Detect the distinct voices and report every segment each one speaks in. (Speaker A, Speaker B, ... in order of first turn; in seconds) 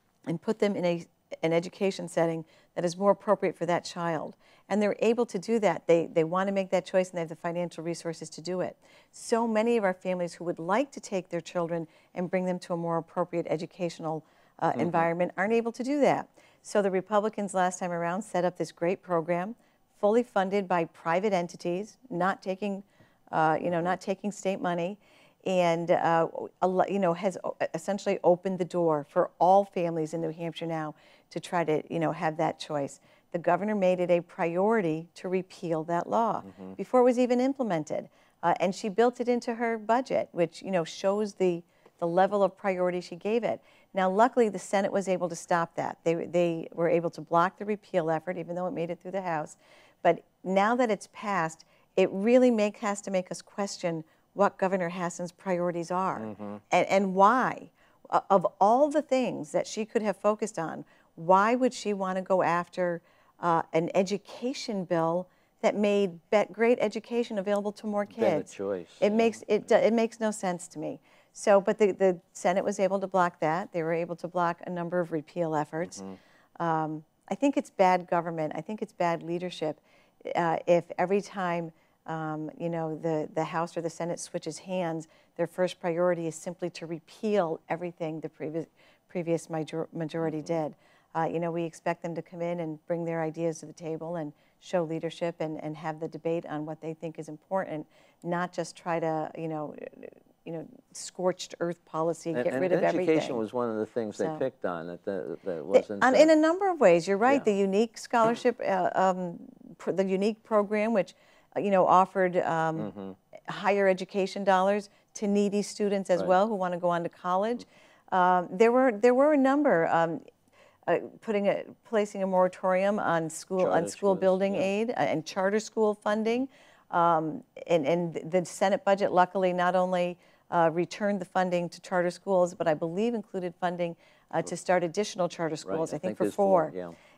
Speaker A: 0.3-68.5, 69.0-76.0, 76.6-103.4, 104.2-104.4, 105.7-112.9, 113.5-120.2, 120.9-136.7
Speaker B: 14.8-15.1, 36.5-36.8, 56.2-56.6, 68.1-69.4, 90.2-90.6, 102.3-106.3, 112.8-113.2, 123.6-124.7, 135.6-136.9